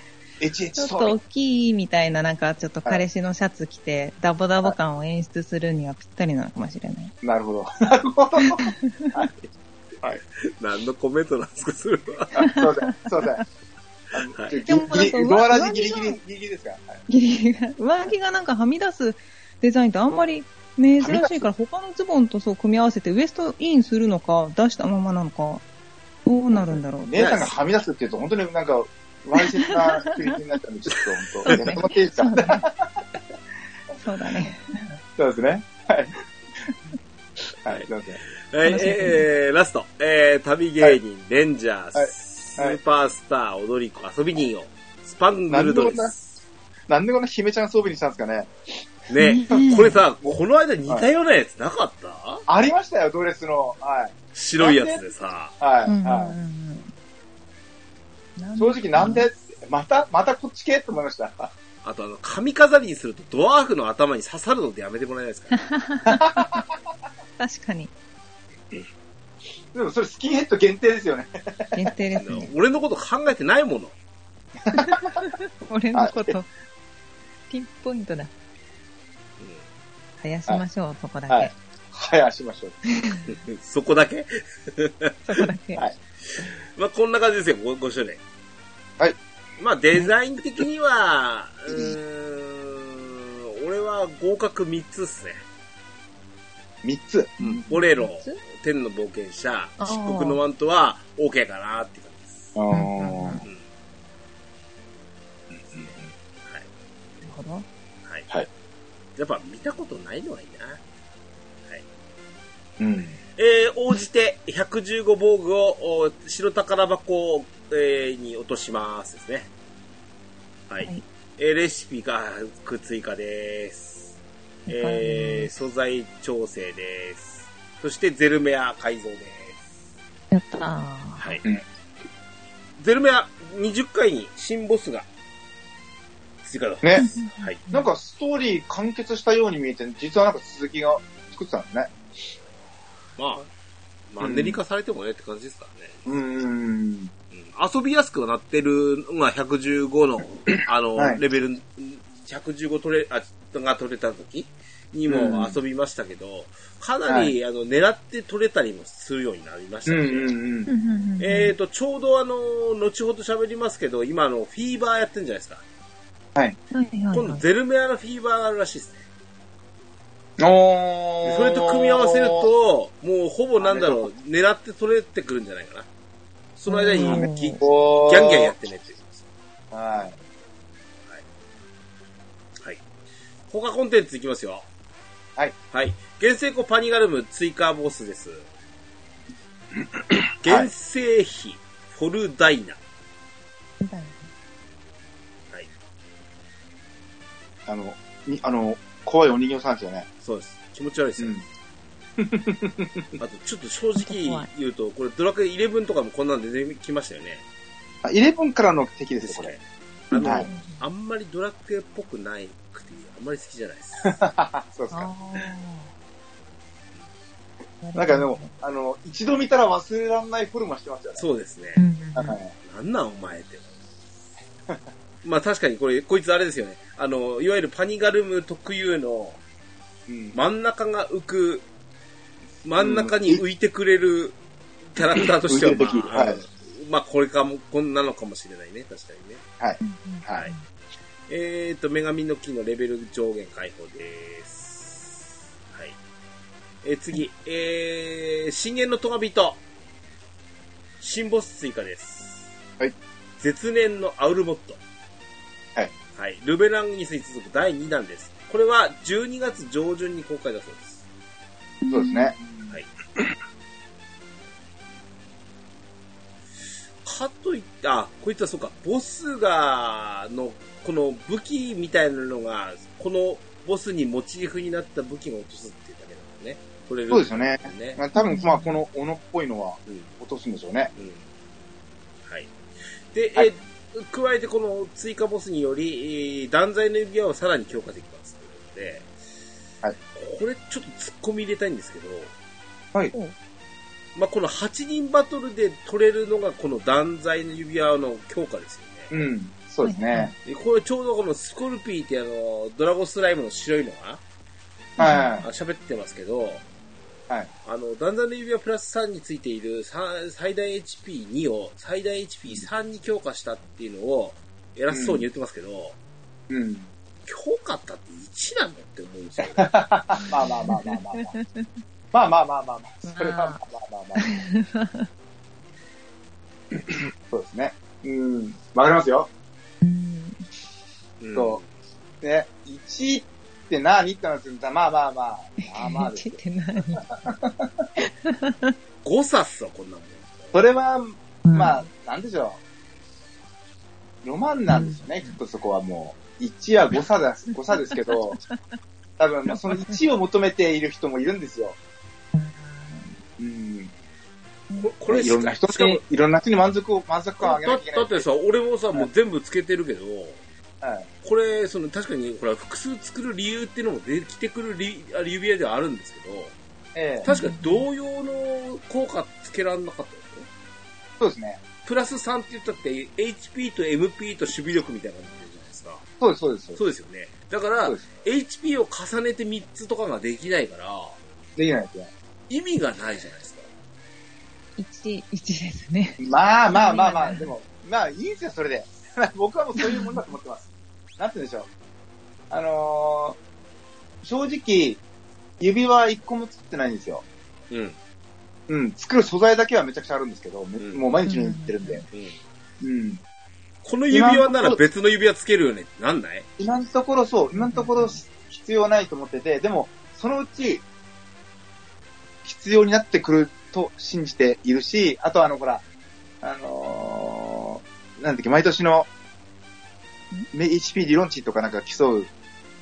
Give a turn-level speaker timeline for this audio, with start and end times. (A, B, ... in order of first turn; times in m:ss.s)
0:00.4-0:01.2 A
0:00.8-0:07.1 B
0:07.2-0:09.3 A
0:08.4-0:09.1 B
0:10.3-0:12.5 C
0:12.4-0:13.4 A
0:12.4-0:13.4 B
0:14.1-0:17.0 A
0:14.3-0:14.7 C
0:14.6-0:16.2 B
0:17.1-0:25.6 B
0:21.0-0:21.5 A
0:26.2-0:27.5 B
0:27.1-0:32.9 A
0:29.6-0:30.4 B
0:31.4-0:32.7 B
0:34.0-0:34.9 B
0:35.2-0:36.2 A
0:37.6-0:38.2 A
0:37.7-0:46.4 C
0:38.6-0:39.2 B
0:41.9-0:42.8 A
0:45.5-0:46.1 A
0:46.9-0:48.5 A
0:49.1-0:52.4 C
0:49.1-0:50.0 B
0:49.5-0:49.8 A
0:52.5-0:55.0 A
0:54.3-0:55.5 C
0:55.6-0:56.3 A
0:55.8-0:56.9 B
0:58.4-0:59.2 B
0:58.5-1:01.5 A
1:01.8-1:05.7 C
1:05.5-1:06.7 B
1:06.1-1:06.6 A
1:07.4-1:07.9 B
1:09.7-1:11.9 A
1:11.7-1:12.5 B
1:12.1-1:13.9 C
1:14.6-1:15.2 A
1:14.7-1:16.5 B
1:15.9-1:16.4 A
1:17.5-1:18.3 B
1:20.2-1:21.5 B
1:21.3-1:22.8 A
1:22.9-1:23.2 B
1:23.2-1:25.2 C
1:25.3-1:25.8 B
1:26.4-1:28.2 C
1:29.6-1:35.4 C
1:36.8-1:37.3 A
1:37.4-1:38.4 B
1:37.4-1:42.6 C
1:39.8-1:40.4 B
1:42.5-1:43.4 A
1:42.7-1:43.4 B
1:47.2-1:47.6 B
1:49.2-1:50.8 C
1:52.8-1:53.2 A
1:53.4-1:59.5 C
2:00.7-2:04.2 C
2:04.7-2:05.5 B
2:04.7-2:09.8 C
2:10.3-2:11.3 B
2:11.2-2:11.4 C
2:12.8-2:15.1 C
2:16.4-2:17.6 C
2:16.8-2:17.1 A
2:17.0-2:17.9 B
2:17.7-2:21.9 A
2:23.2-2:23.5 C
2:24.1-2:26.0 C
2:24.2-2:24.6 A
2:26.0-2:27.1 A
2:27.3-2:40.4 C
2:35.1-2:35.6 A
2:37.0-2:37.3 A
2:39.8-2:40.7 A
2:40.6-2:41.5 B
2:41.2-2:45.6 C
2:46.7-2:47.4 B
2:47.1-2:49.0 C
2:50.4-2:52.5 A
2:51.2-2:55.9 C
2:53.6-2:54.1 A
2:56.6-2:59.3 C
2:56.7-2:57.6 B
2:57.0-2:58.5 A
2:59.7-3:00.2 A
3:03.5-3:04.6 C
3:05.7-3:08.5 C
3:10.1-3:10.7 A
3:10.4-3:12.8 C
3:13.8-3:14.3 B
3:17.7-3:20.1 A
3:20.2-3:21.4 C
3:21.2-3:21.4 A
3:22.2-3:23.1 A
3:23.2-3:27.4 C
3:24.0-3:24.5 B
3:28.0-3:29.5 A
3:29.2-3:34.2 C
3:30.1-3:30.8 B
3:30.2-3:30.5 A
3:34.0-3:35.5 A
3:34.9-3:35.9 B
3:37.8-3:38.5 B
3:37.9-3:41.2 A
3:41.2-3:41.8 C
3:41.8-3:42.4 B
3:42.1-3:42.5 A
3:42.6-3:43.8 C
3:45.2-3:49.4 C
3:50.1-3:50.4 A
3:50.3-3:51.6 C
3:52.6-3:54.4 C
3:52.8-3:53.4 A
3:54.9-3:59.4 C
3:55.1-3:56.4 A
3:59.6-4:00.5 A
3:59.8-4:00.6 B
4:01.3-4:06.0 C
4:06.8-4:09.6 C
4:11.0-4:12.5 C
4:13.4-4:14.8 C
4:16.2-4:21.0 C
4:21.8-4:22.6 B
4:21.9-4:22.3 A
4:27.0-4:38.0 C
4:37.1-4:40.9 A
4:38.2-4:38.7 B
4:39.8-4:40.1 C
4:41.0-4:41.3 C
4:42.2-4:42.6 C
4:43.1-4:49.1 C
4:50.1-4:52.3 C
4:54.2-4:59.1 C
4:59.1-5:00.3 A
4:59.8-5:00.3 B
5:00.4-5:04.2 C
5:05.0-5:05.4 B
5:05.0-5:05.4 A
5:05.4-5:06.6 C
5:07.6-5:15.9 C
5:14.9-5:15.2 A
5:16.5-5:16.9 A
5:17.2-5:19.7 C
5:19.4-5:21.3 A
5:20.3-5:21.6 B
5:22.1-5:24.4 A
5:23.0-5:23.6 B
5:24.1-5:25.1 B
5:26.9-5:29.3 A
5:29.8-5:30.4 B
5:31.2-5:31.7 C
5:31.3-5:31.6 A
5:32.2-5:36.4 A
5:35.6-5:37.3 B
5:37.3-5:37.8 A
5:38.0-5:38.7 B
5:39.0-5:40.6 C
5:40.5-5:42.6 A
5:41.4-5:41.8 B
5:44.2-5:48.4 A
5:44.7-5:45.4 B
5:49.2-5:51.8 A
5:49.5-5:49.9 B
5:52.3-5:53.1 B
5:53.4-5:53.9 A
5:54.8-5:56.0 C
5:55.1-5:58.2 A
5:57.4-6:00.4 C
6:00.8-6:01.1 A
6:01.2-6:06.5 C
6:06.9-6:07.3 A
6:07.2-6:10.5 C
6:07.3-6:07.8 B
6:11.2-6:11.6 A
6:11.8-6:16.0 C
6:16.2-6:16.8 A
6:16.8-6:21.2 C
6:21.6-6:22.1 A
6:22.5-6:23.7 C
6:24.8-6:27.5 B
6:26.2-6:31.7 A
6:29.8-6:30.2 B
6:32.5-6:33.4 A
6:34.2-6:35.0 A
6:35.6-6:37.2 A
6:37.7-6:38.0 C
6:38.7-6:42.1 A
6:40.8-6:41.0 C
6:41.2-6:42.0 B
6:42.1-6:42.4 C
6:42.8-6:43.2 A
6:43.8-6:46.5 C
6:44.1-6:44.8 A
6:46.6-6:50.8 A
6:47.6-6:48.2 B
6:52.4-6:55.8 A
6:56.4-6:59.1 A
7:00.5-7:02.3 A